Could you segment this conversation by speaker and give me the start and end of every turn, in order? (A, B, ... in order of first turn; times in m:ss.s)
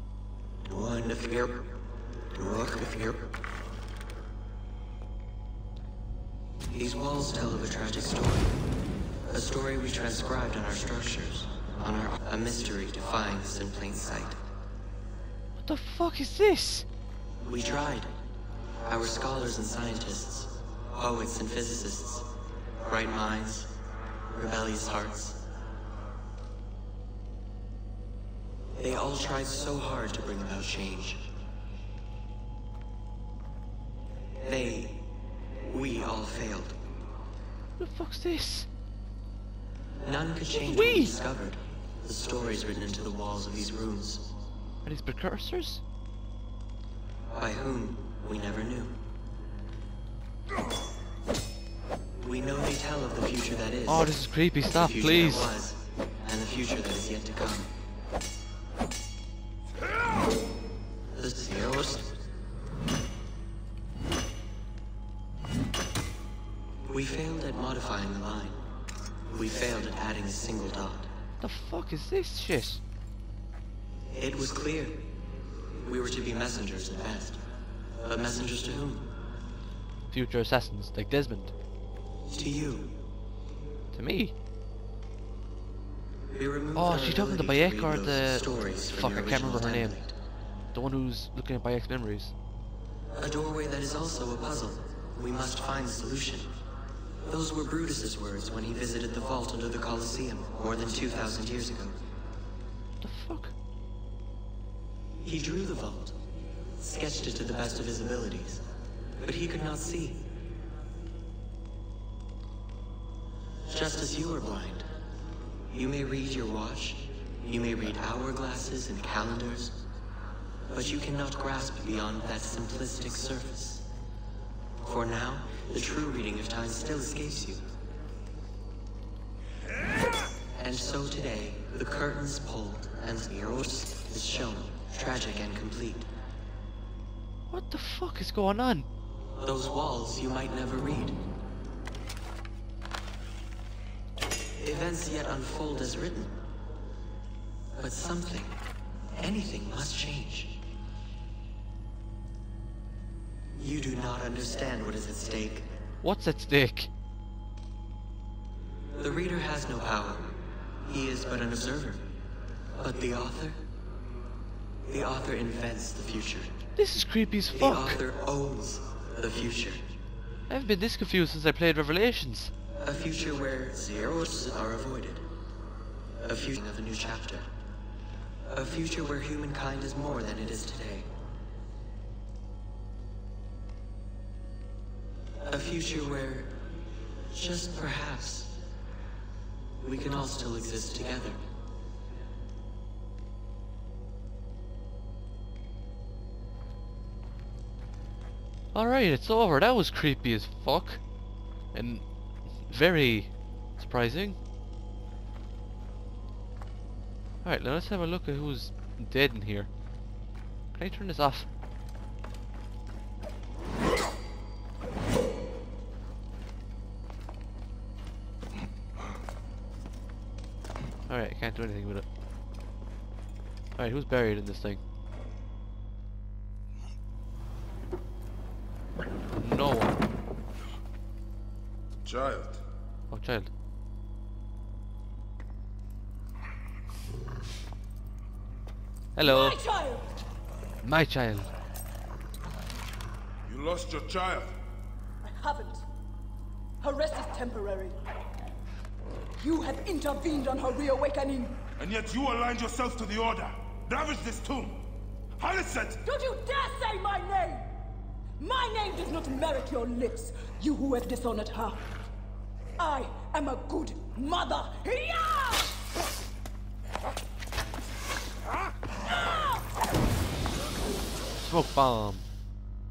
0:00.6-0:01.7 A
0:02.3-0:03.3 A
0:06.7-0:08.6 A
0:09.3-0:14.4 A
0:15.6-0:16.8 B
0:17.4-0:18.1 A
0:18.8-0:23.7 A
0:24.3-0:25.5 A
0:28.8-0:31.3 A
0:34.4-0:35.1 A
0:35.6-0:36.8 A
0:37.8-0:38.7 B
0:40.0-0:44.3 A
0:40.6-0:41.2 B
0:44.8-0:45.8 B
0:47.3-0:49.0 A
0:52.2-0:54.1 A
0:53.9-0:55.5 B
0:54.7-0:57.7 A
1:01.1-1:02.1 A
1:06.8-1:08.6 A
1:09.3-1:11.1 A
1:11.4-1:12.8 B
1:14.1-1:15.1 A
1:15.8-1:17.4 A
1:18.0-1:19.1 A
1:20.1-1:21.5 B
1:22.3-1:23.0 A
1:23.9-1:24.3 B
1:26.3-1:30.1 A
1:26.8-1:30.0 B
1:30.7-1:32.3 B
1:33.1-1:36.5 A
1:37.2-1:42.0 A
1:43.0-1:43.5 B
1:45.2-1:46.2 A
1:46.8-1:48.6 A
1:49.2-1:50.3 A
1:53.7-1:54.9 A
1:55.7-1:59.8 A
2:00.7-2:03.9 A
2:04.8-2:07.7 A
2:10.6-2:16.1 A
2:17.5-2:18.9 B
2:19.4-2:21.2 A
2:24.6-2:26.4 A
2:27.7-2:28.6 A
2:29.2-2:30.6 A
2:33.6-2:35.7 A
2:36.0-2:36.9 B
2:38.9-2:42.1 A
2:42.7-2:43.6 A
2:44.8-2:46.6 A
2:46.8-2:48.0 B
2:47.5-2:49.9 A
2:50.5-2:52.5 B
2:52.8-2:55.2 A
2:56.2-2:57.5 A
2:58.4-3:01.1 A
3:05.4-3:06.6 A
3:07.3-3:08.6 A
3:09.8-3:11.4 A
3:18.7-3:21.0 B
3:21.7-3:22.0 B
3:22.6-3:24.4 B
3:27.4-3:29.7 B
3:30.7-3:31.5 B
3:41.1-3:42.0 B
3:43.8-3:44.8 B
3:49.4-3:50.0 B
3:52.0-3:52.6 C
3:53.1-3:53.5 B
3:59.2-3:59.6 B
3:59.2-4:00.1 D
4:00.8-4:01.5 B
4:03.4-4:04.6 C
4:05.2-4:05.8 D
4:06.8-4:08.0 D
4:09.4-4:11.6 D
4:11.8-4:16.0 C
4:16.0-4:17.7 D
4:18.4-4:21.9 D
4:22.8-4:25.7 D
4:29.1-4:29.6 D
4:31.4-4:32.2 B